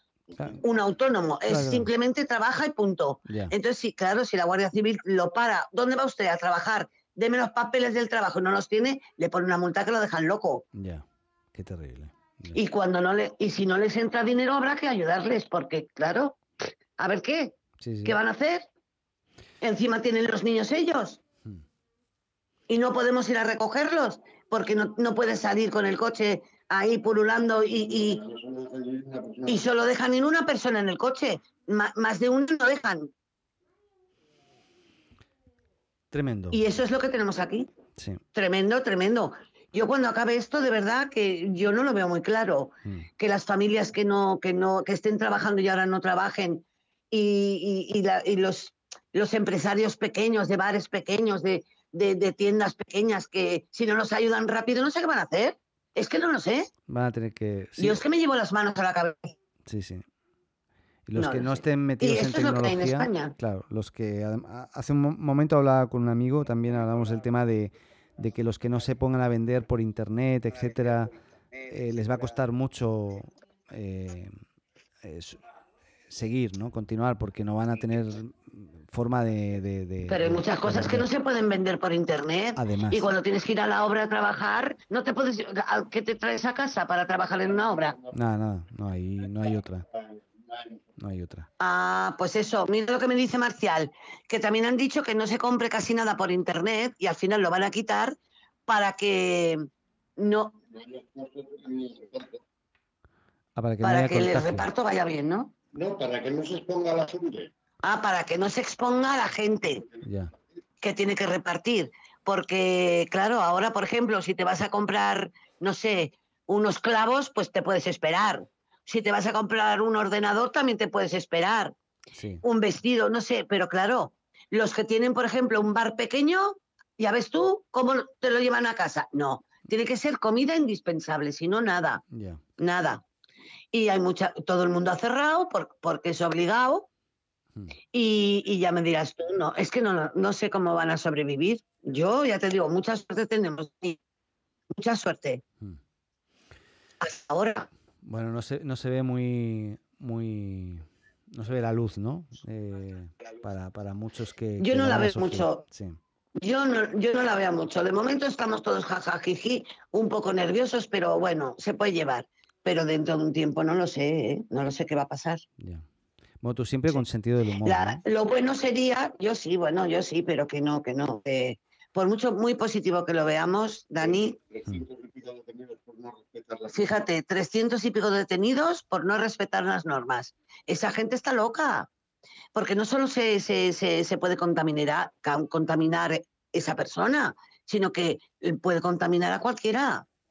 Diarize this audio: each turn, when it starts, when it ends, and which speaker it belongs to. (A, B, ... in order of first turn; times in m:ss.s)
0:00.3-0:00.6 A
0:00.6-0:10.6 B
0:01.5-0:01.9 A
0:03.3-0:03.5 A
0:10.7-0:12.6 A
0:12.5-0:16.4 B
0:17.0-0:18.7 B
0:17.8-0:18.2 A
0:19.6-0:21.2 B
0:22.7-0:28.2 B
0:28.6-0:29.3 C
0:29.4-0:33.1 B
0:36.1-0:36.7 A
0:36.5-0:37.7 B
0:38.3-0:56.7 B
0:56.9-0:58.0 A
0:57.8-0:59.3 B
0:59.6-1:00.0 A
1:01.1-1:11.1 A
1:01.2-1:03.3 B
1:11.7-1:14.3 A
1:15.0-1:15.4 A
1:16.1-1:21.1 A
1:20.0-1:28.0 B
1:22.6-1:23.1 A
1:28.1-1:29.8 A
1:31.0-1:31.5 A
1:31.6-1:38.1 B
1:38.7-1:39.6 B
1:40.2-1:40.6 B
1:41.2-1:42.3 C
1:43.6-1:44.7 A
1:43.8-1:45.5 B
1:45.7-1:47.5 C
1:47.8-1:49.8 B
1:50.0-1:50.3 A
1:50.8-2:01.8 B
2:02.1-2:02.4 A
2:02.4-2:12.0 B
2:12.1-2:12.4 A
2:12.6-2:13.0 B
2:13.7-2:16.9 B
2:17.9-2:24.0 B
2:24.7-2:25.4 B
2:27.0-2:27.7 B
2:28.0-2:36.0 A
2:34.6-2:35.6 B
2:36.4-2:45.4 B
2:45.6-2:45.8 A
2:46.4-2:48.0 A
2:47.6-2:54.4 B
2:54.9-2:56.7 C
2:56.7-3:01.9 B
3:02.5-3:10.1 B